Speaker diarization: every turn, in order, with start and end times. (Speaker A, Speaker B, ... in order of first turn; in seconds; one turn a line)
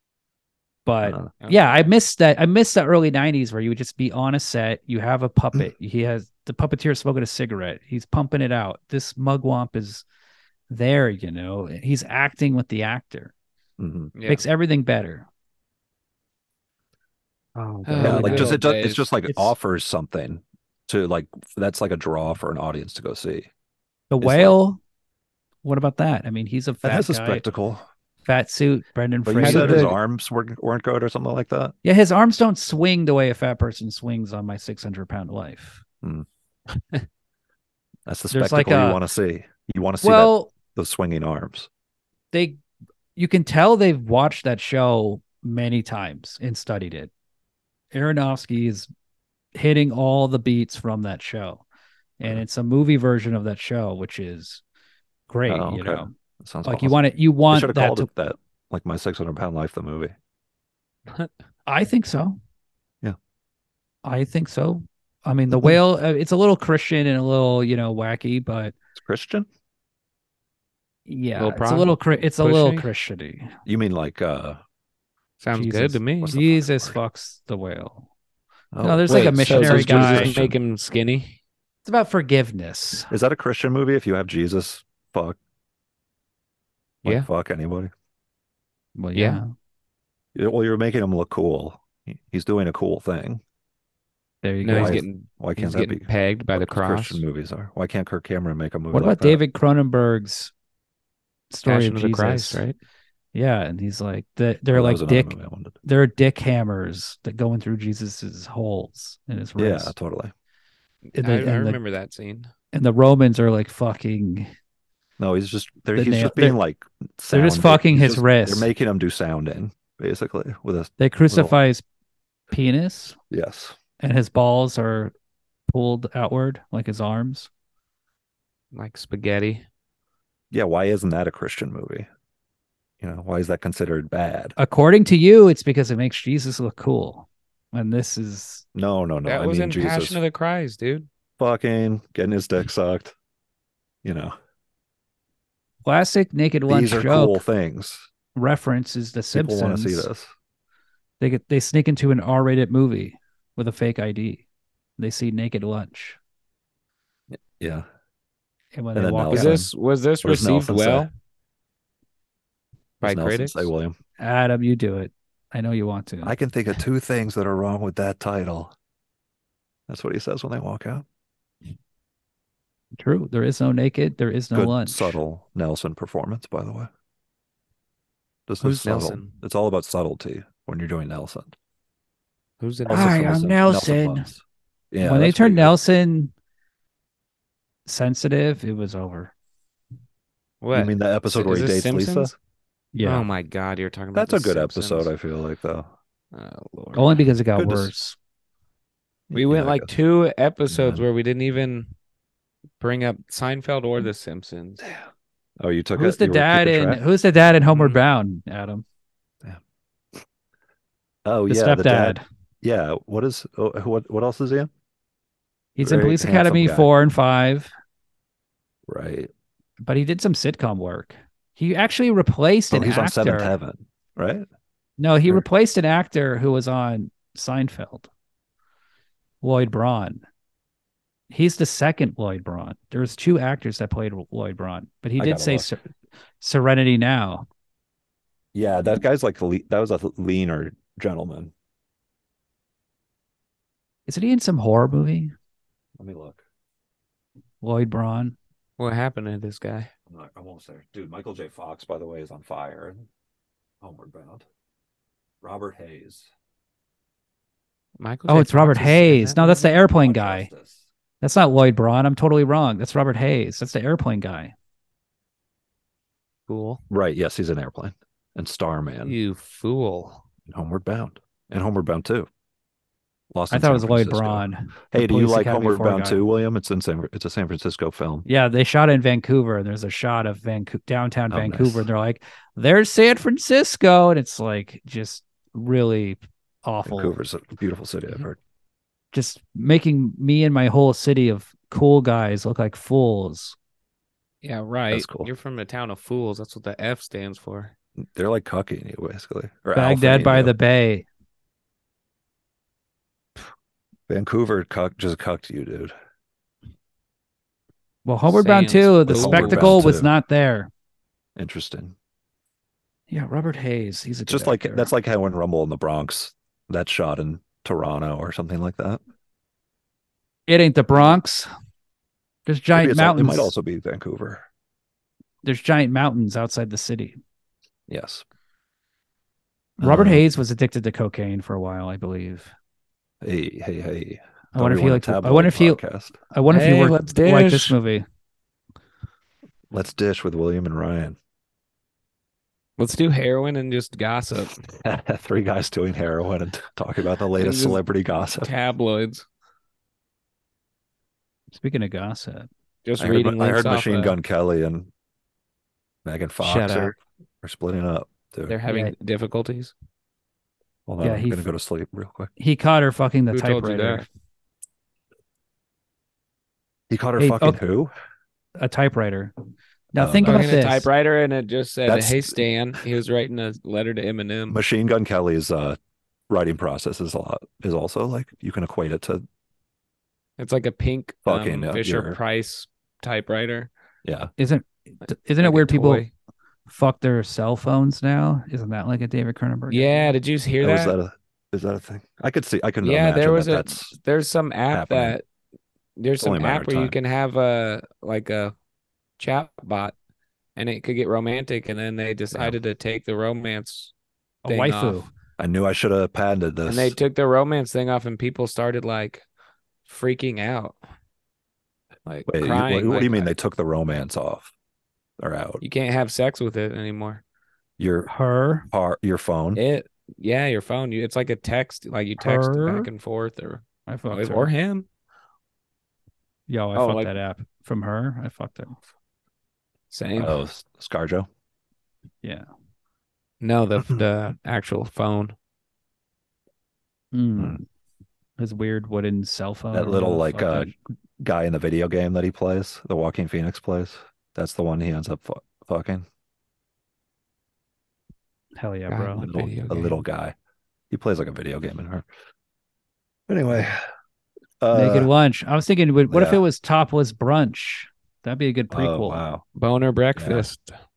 Speaker A: 0.8-10.0
Speaker B: 1.0-1.3
Speaker A: 10.7-13.3
Speaker B: 13.8-14.1
Speaker C: 14.2-14.4
Speaker A: 14.3-15.2
Speaker A: 17.5-18.6
Speaker C: 17.9-19.0
Speaker B: 18.0-23.5
Speaker A: 19.3-19.5
Speaker A: 24.1-24.8
Speaker B: 24.2-24.5
Speaker A: 25.6-27.4
Speaker B: 26.8-27.8
Speaker A: 28.2-29.9
Speaker B: 29.2-31.7
Speaker C: 29.4-29.9
Speaker A: 31.8-35.8
Speaker B: 38.0-41.7
Speaker A: 38.3-39.0
Speaker A: 40.0-40.5
Speaker A: 42.3-42.6
Speaker A: 43.1-47.1
Speaker A: 47.9-48.9
Speaker A: 49.5-51.6
Speaker A: 52.2-54.6
Speaker A: 55.3-56.1
Speaker B: 55.5-60.1
Speaker A: 56.6-58.1
Speaker A: 61.7-62.4
Speaker A: 64.0-68.7
Speaker B: 65.5-65.8
Speaker B: 69.0-69.5
Speaker A: 71.1-73.5
Speaker C: 71.4-72.9
Speaker B: 73.7-74.6
Speaker C: 75.4-76.4
Speaker A: 75.5-78.1
Speaker B: 76.2-77.0
Speaker B: 78.7-80.5
Speaker A: 78.8-80.3
Speaker C: 79.1-81.4
Speaker A: 81.8-83.1
Speaker B: 83.1-85.4
Speaker B: 87.0-87.9
Speaker A: 89.0-89.5
Speaker C: 89.1-89.4
Speaker B: 90.3-93.4
Speaker A: 94.4-95.0
Speaker C: 94.6-97.2
Speaker B: 94.7-99.4
Speaker A: 98.9-100.5
Speaker A: 101.5-102.6
Speaker C: 101.6-102.8
Speaker A: 103.3-109.9
Speaker B: 104.7-105.8
Speaker B: 109.6-110.3
Speaker C: 111.1-112.5
Speaker A: 111.2-111.8
Speaker A: 112.7-114.5
Speaker B: 115.2-121.5
Speaker A: 115.9-116.6
Speaker A: 117.3-118.7
Speaker A: 121.0-121.8
Speaker A: 122.5-123.2
Speaker B: 123.3-123.8
Speaker A: 124.0-125.1
Speaker A: 125.7-127.5
Speaker C: 128.7-129.6
Speaker B: 130.5-132.1
Speaker B: 133.0-134.5
Speaker A: 134.6-138.6
Speaker B: 138.7-140.2
Speaker C: 139.2-141.1
Speaker B: 141.4-143.1
Speaker B: 144.0-144.3
Speaker A: 145.8-147.4
Speaker B: 146.7-148.1
Speaker A: 148.3-150.1
Speaker B: 149.3-150.3
Speaker A: 151.2-154.4
Speaker A: 155.0-156.2
Speaker B: 157.3-157.8
Speaker A: 158.7-159.6
Speaker B: 158.9-159.7
Speaker C: 159.3-161.1
Speaker B: 160.2-161.1
Speaker C: 163.0-163.7
Speaker B: 163.0-163.9
Speaker A: 164.2-166.3
Speaker B: 166.2-168.7
Speaker B: 169.9-171.0
Speaker A: 172.9-175.2
Speaker B: 174.5-176.9
Speaker B: 178.5-181.5
Speaker C: 178.6-179.4
Speaker C: 182.6-183.5
Speaker B: 182.8-185.8
Speaker A: 182.9-184.3
Speaker A: 185.0-186.3
Speaker A: 187.8-189.3
Speaker C: 190.6-192.3
Speaker B: 190.7-192.3
Speaker A: 192.9-193.3
Speaker C: 193.0-195.1
Speaker B: 194.1-195.9
Speaker C: 196.3-197.2
Speaker A: 196.9-198.2
Speaker B: 197.5-197.9
Speaker B: 199.3-199.9
Speaker C: 199.3-201.9
Speaker B: 200.7-201.0
Speaker C: 202.8-204.8
Speaker B: 205.6-207.0
Speaker A: 205.9-208.8
Speaker C: 207.7-208.0
Speaker B: 211.2-214.7
Speaker A: 211.5-212.2
Speaker A: 215.8-217.7
Speaker B: 215.8-216.9
Speaker B: 218.9-219.3
Speaker A: 219.8-223.5
Speaker B: 222.7-224.4
Speaker A: 225.0-228.1
Speaker A: 229.4-230.2
Speaker A: 231.3-235.8
Speaker B: 235.2-235.7
Speaker A: 236.4-237.4
Speaker B: 238.5-241.5
Speaker A: 244.1-245.3
Speaker B: 246.0-246.4
Speaker A: 247.6-248.3
Speaker C: 248.8-249.9
Speaker B: 250.1-253.1
Speaker B: 253.8-254.4
Speaker B: 255.4-256.3
Speaker C: 258.0-259.6
Speaker A: 258.3-260.5
Speaker B: 259.9-260.8
Speaker A: 261.2-264.5
Speaker C: 266.5-266.8
Speaker B: 266.9-269.1
Speaker C: 269.0-270.2
Speaker B: 270.5-272.3
Speaker B: 273.3-278.2
Speaker A: 273.5-276.2
Speaker A: 278.2-287.2
Speaker B: 281.3-281.9
Speaker B: 286.9-288.4
Speaker A: 289.1-293.6
Speaker C: 294.4-297.7
Speaker B: 294.9-295.3
Speaker B: 298.0-300.5
Speaker A: 299.7-301.1
Speaker B: 304.1-305.9
Speaker A: 308.0-310.7
Speaker C: 308.3-309.8
Speaker B: 309.1-310.1
Speaker B: 311.4-311.9
Speaker A: 313.1-314.9
Speaker B: 314.3-319.0
Speaker A: 320.5-321.5
Speaker A: 322.4-323.5
Speaker B: 322.7-324.4
Speaker A: 325.4-327.2
Speaker B: 327.9-328.2
Speaker A: 329.8-332.5
Speaker B: 329.8-330.2
Speaker B: 333.2-336.1
Speaker A: 334.5-338.0
Speaker C: 336.5-337.8
Speaker B: 339.7-341.2
Speaker C: 342.8-344.6
Speaker B: 344.8-348.5
Speaker C: 347.4-347.8
Speaker C: 348.4-349.2
Speaker A: 351.5-352.5
Speaker C: 352.8-354.1
Speaker B: 353.0-354.9
Speaker B: 356.0-358.6
Speaker A: 356.4-356.9
Speaker C: 358.5-359.7
Speaker A: 358.7-358.9
Speaker B: 360.9-362.3
Speaker A: 361.0-361.4
Speaker A: 362.4-364.1
Speaker C: 363.3-364.1
Speaker B: 366.9-367.9
Speaker A: 367.2-367.6
Speaker A: 368.6-369.3
Speaker A: 369.9-370.9
Speaker B: 369.9-370.6
Speaker C: 370.2-374.6
Speaker B: 371.9-372.4
Speaker B: 374.5-375.8
Speaker B: 376.3-379.2
Speaker C: 380.4-383.7
Speaker B: 381.2-382.2
Speaker B: 384.0-384.3
Speaker A: 384.4-386.0
Speaker C: 385.4-386.1
Speaker A: 386.7-390.1
Speaker C: 389.7-390.9
Speaker B: 390.6-393.9
Speaker C: 392.8-395.2
Speaker B: 394.7-395.2
Speaker C: 396.0-398.5
Speaker B: 396.2-396.9
Speaker C: 399.2-399.9
Speaker C: 400.6-403.9
Speaker B: 402.3-402.6
Speaker A: 404.4-405.1
Speaker C: 404.5-405.1
Speaker B: 405.4-407.0
Speaker C: 406.6-409.2
Speaker C: 409.9-410.8
Speaker C: 412.1-413.3
Speaker B: 412.3-414.5
Speaker B: 415.2-415.6
Speaker C: 415.6-417.2
Speaker B: 417.8-418.1
Speaker A: 418.1-418.7
Speaker B: 418.7-419.6
Speaker C: 419.5-424.9
Speaker A: 422.2-422.9
Speaker A: 423.9-424.5
Speaker A: 426.5-428.8
Speaker C: 426.7-427.1
Speaker C: 429.9-430.4
Speaker B: 430.1-431.3
Speaker C: 433.4-435.3
Speaker A: 437.1-437.6
Speaker A: 438.4-440.7
Speaker B: 439.7-446.0
Speaker A: 448.6-449.3
Speaker C: 448.9-450.0
Speaker B: 449.2-450.3
Speaker B: 450.9-452.1
Speaker B: 453.3-453.8
Speaker B: 454.6-455.1
Speaker A: 454.7-459.2
Speaker B: 456.1-456.4
Speaker B: 458.7-459.4
Speaker C: 459.5-460.7
Speaker B: 460.1-460.5